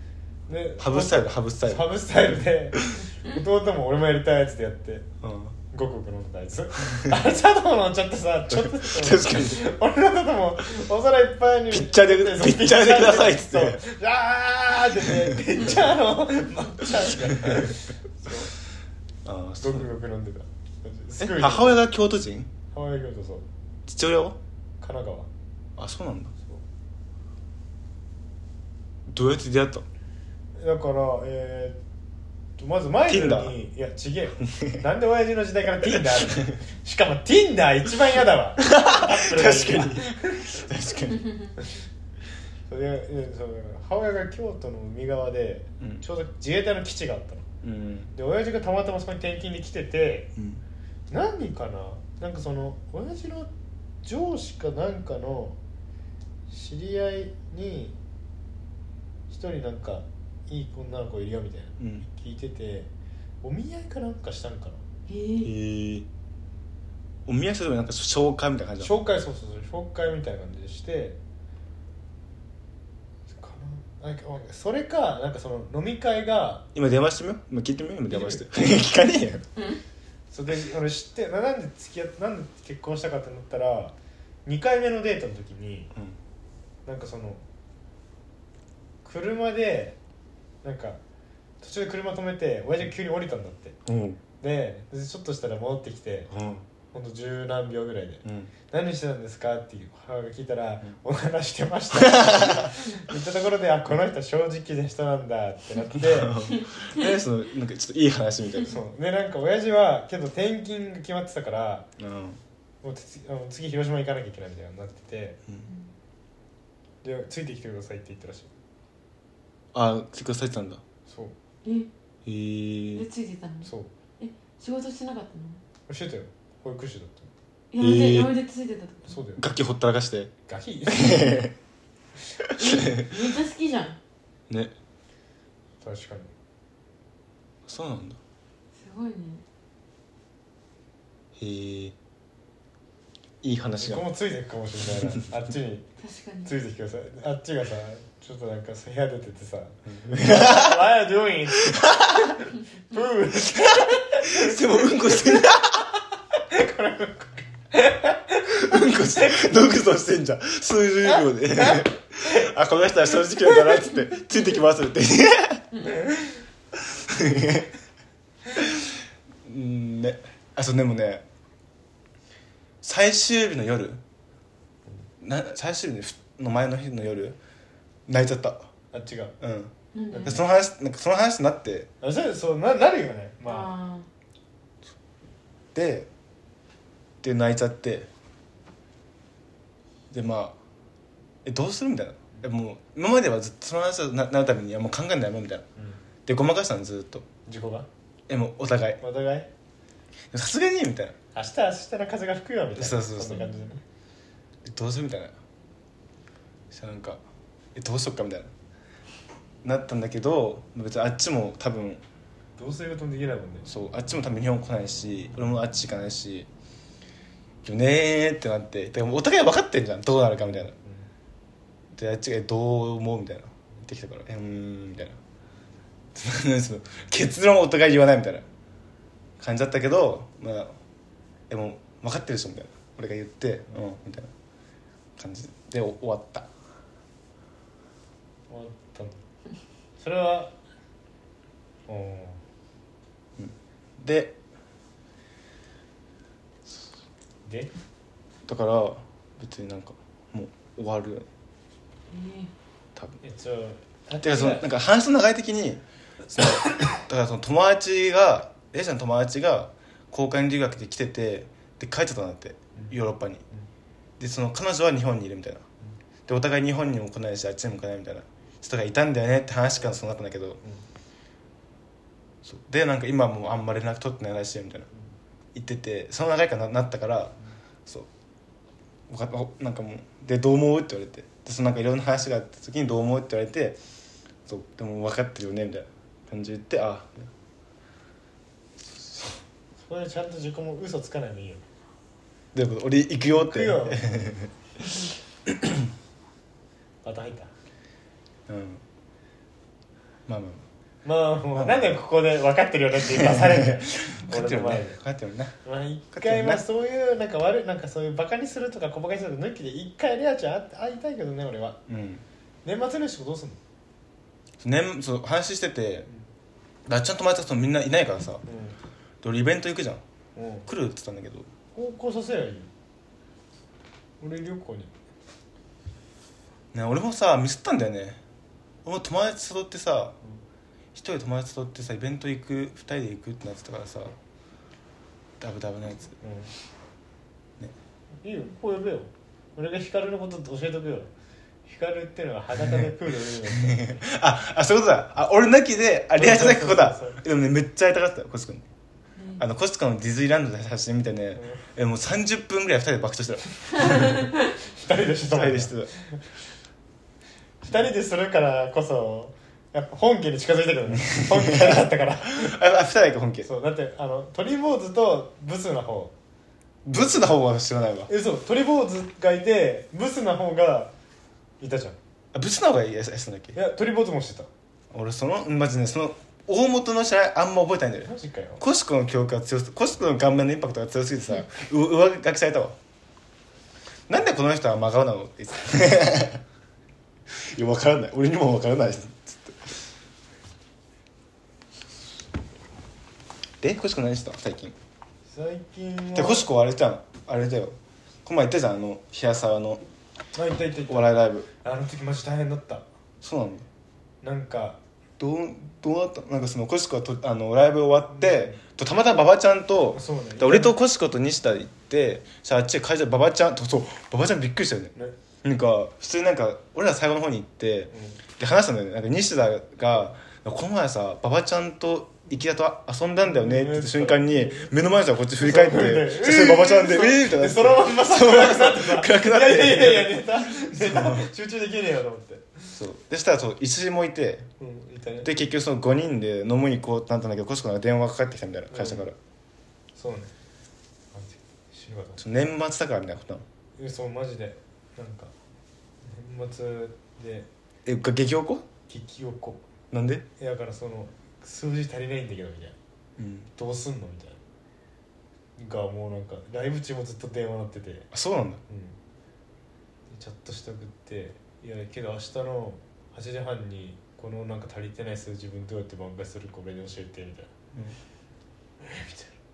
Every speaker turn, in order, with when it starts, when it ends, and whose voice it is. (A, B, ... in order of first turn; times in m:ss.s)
0:00.5-0:05.1 A
0:00.8-0:01.9 B
0:05.2-0:05.6 B
0:05.7-0:18.5 A
0:08.5-0:09.7 B
0:11.7-0:13.8 B
0:15.0-0:15.6 B
0:17.2-0:17.8 B
0:19.2-0:19.9 B
0:19.6-0:21.8 A
0:21.2-0:22.5 B
0:22.7-0:23.5 A
0:23.9-0:24.4 B
0:24.8-0:25.3 A
0:25.8-0:26.3 B
0:29.1-0:29.9 B
0:30.6-0:31.8 A
0:32.6-0:40.6 A
0:33.1-0:33.6 B
0:34.5-0:34.8 B
0:35.9-0:36.6 B
0:38.6-0:41.4 B
0:42.7-0:47.5 A
0:47.6-0:48.1 B
0:48.1-0:50.3 A
0:50.4-0:50.6 B
0:51.1-0:53.5 A
0:54.0-0:55.6 A
0:56.5-0:58.0 A
0:59.3-1:02.9 A
1:01.8-1:02.1 B
1:03.4-1:04.8 A
1:05.1-1:05.5 C
1:05.4-1:06.1 B
1:07.3-1:08.9 B
1:08.8-1:11.2 A
1:13.3-1:16.7 A
1:16.8-1:19.4 B
1:18.1-1:18.5 A
1:20.3-1:24.0 A
1:24.5-1:25.9 A
1:26.9-1:27.4 A
1:29.0-1:30.0 A
1:30.6-1:31.0 A
1:31.6-1:33.8 A
1:33.9-1:34.2 B
1:34.4-1:36.3 A
1:36.3-1:36.7 B
1:36.9-1:46.4 A
1:38.2-1:38.5 B
1:41.9-1:42.7 B
1:46.0-1:48.8 B
1:48.7-1:51.9 A
1:52.0-1:52.4 B
1:52.8-1:55.4 A
1:55.7-1:55.9 C
1:57.0-1:58.5 A
1:59.7-2:00.8 B
2:01.1-2:01.4 A
2:01.6-2:01.9 C
2:02.3-2:03.1 B
2:02.9-2:05.6 C
2:03.6-2:03.9 A
2:05.9-2:07.3 A
2:07.7-2:09.2 C
2:07.8-2:08.4 B
2:09.1-2:09.4 A
2:09.4-2:10.3 B
2:10.5-2:11.5 A
2:10.9-2:11.5 B
2:12.4-2:13.1 B
2:12.6-2:14.0 C
2:14.5-2:14.7 B
2:15.8-2:16.3 A
2:17.7-2:18.2 B
2:18.8-2:19.4 C
2:21.4-2:22.0 B
2:23.4-2:24.1 B
2:23.8-2:25.9 A
2:26.0-2:26.5 C
2:26.4-2:35.5 A
2:29.9-2:30.8 B
2:31.6-2:32.4 B
2:33.4-2:36.0 B
2:36.4-2:39.4 A
2:38.5-2:45.7 B
2:41.7-2:42.4 A
2:46.8-2:47.7 B
2:48.6-2:51.2 B
2:52.8-2:54.0 B
2:55.2-2:57.4 B
2:58.1-2:58.7 B
2:58.9-2:59.3 A
2:59.4-3:01.9 B
2:59.9-3:00.4 C
3:00.1-3:00.4 A
3:02.0-3:03.7 A
3:03.4-3:04.1 C
3:05.7-3:06.1 B
3:07.2-3:08.1 B
3:10.1-3:10.6 B
3:11.4-3:15.7 B
3:16.3-3:17.3 B
3:17.5-3:17.9 A
3:18.3-3:19.0 B
3:19.0-3:19.5 A
3:20.3-3:21.2 B
3:21.4-3:23.8 A
3:22.8-3:23.5 B
3:23.4-3:23.7 C
3:24.6-3:25.4 B
3:26.7-3:27.2 B
3:27.8-3:28.5 B
3:29.6-3:32.0 B
3:32.6-3:33.7 A
3:33.7-3:36.5 B
3:37.6-3:40.8 B
3:40.8-3:41.1 A
3:42.0-3:45.2 B
3:46.2-3:48.5 B
3:49.4-3:50.8 B
3:51.5-3:54.3 B
3:55.2-3:56.5 B
3:58.5-3:59.2 A
4:00.0-4:00.6 A
4:01.9-4:02.4 A
4:03.4-4:04.4 B
4:07.4-4:07.7 A
4:08.5-4:11.3 B
4:12.1-4:12.5 C
4:13.2-4:14.7 A
4:14.2-4:23.4 B
4:24.2-4:25.6 B
4:26.3-4:30.6 B
4:32.4-4:34.9 B
4:35.5-4:38.1 B
4:39.1-4:43.8 B
4:44.5-4:47.3 B
4:48.9-4:49.3 B
4:49.8-4:51.6 A
4:52.5-4:55.9 B
4:53.3-4:54.1 A
4:57.0-4:57.5 A
4:58.5-4:58.8 B
5:00.3-5:00.6 B
5:01.0-5:05.0 A
5:01.6-5:02.0 B
5:03.1-5:05.6 B
5:05.6-5:11.8 A
5:06.1-5:06.6 B
5:11.9-5:12.2 B
5:12.6-5:13.6 A
5:14.6-5:16.1 B
5:16.9-5:18.4 B
5:18.5-5:18.8 A
5:19.2-5:20.0 B
5:20.4-5:20.7 A
5:20.7-5:21.5 B
5:21.8-5:22.7 A
5:24.2-5:24.9 A
5:26.7-5:28.2 B
5:28.8-5:30.2 B
5:31.0-5:34.2 B
5:35.4-5:36.2 B
5:36.2-5:36.5 A
5:38.2-5:41.1 A
5:41.7-5:44.0 A
5:42.6-5:48.6 B
5:46.2-5:47.2 A
5:49.2-5:49.4 C
5:49.4-5:54.2 B
5:51.4-5:51.6 A
5:53.7-5:56.2 A
5:55.3-5:55.9 B
5:57.6-6:02.6 A
6:01.0-6:03.5 B
6:03.4-6:06.1 A
6:06.8-6:08.1 B
6:08.1-6:10.9 A
6:11.6-6:12.0 A
6:12.3-6:13.6 B
6:13.5-6:14.5 A
6:14.9-6:22.8 B
6:18.0-6:18.6 A
6:24.1-6:26.4 B
6:27.3-6:29.7 B
6:33.6-6:34.8 B
6:35.3-6:36.5 A
6:36.2-6:39.8 B
6:40.3-6:42.9 A
6:40.9-6:41.5 B
6:43.2-6:43.7 B
6:44.2-6:44.8 A
6:45.2-7:11.3 B
6:48.1-6:48.6 A
6:49.9-6:50.8 A
6:57.9-6:58.2 A
7:03.2-7:04.7 A
7:05.4-7:12.8 A
7:12.8-7:14.5 B
7:14.6-7:15.3 A
7:15.2-7:19.2 B
7:18.7-7:19.1 A
7:20.0-7:20.3 A
7:21.1-7:22.2 A
7:22.2-7:23.4 B
7:23.8-7:25.3 A
7:26.0-7:27.5 A
7:27.8-7:28.7 B
7:28.9-7:29.6 A
7:29.9-7:30.2 B
7:30.4-7:32.8 A
7:33.2-7:33.5 B
7:33.6-7:34.4 A
7:35.6-7:38.1 A
7:38.1-7:38.6 B
7:38.7-7:39.0 A
7:40.1-7:47.5 A
7:48.8-7:49.4 A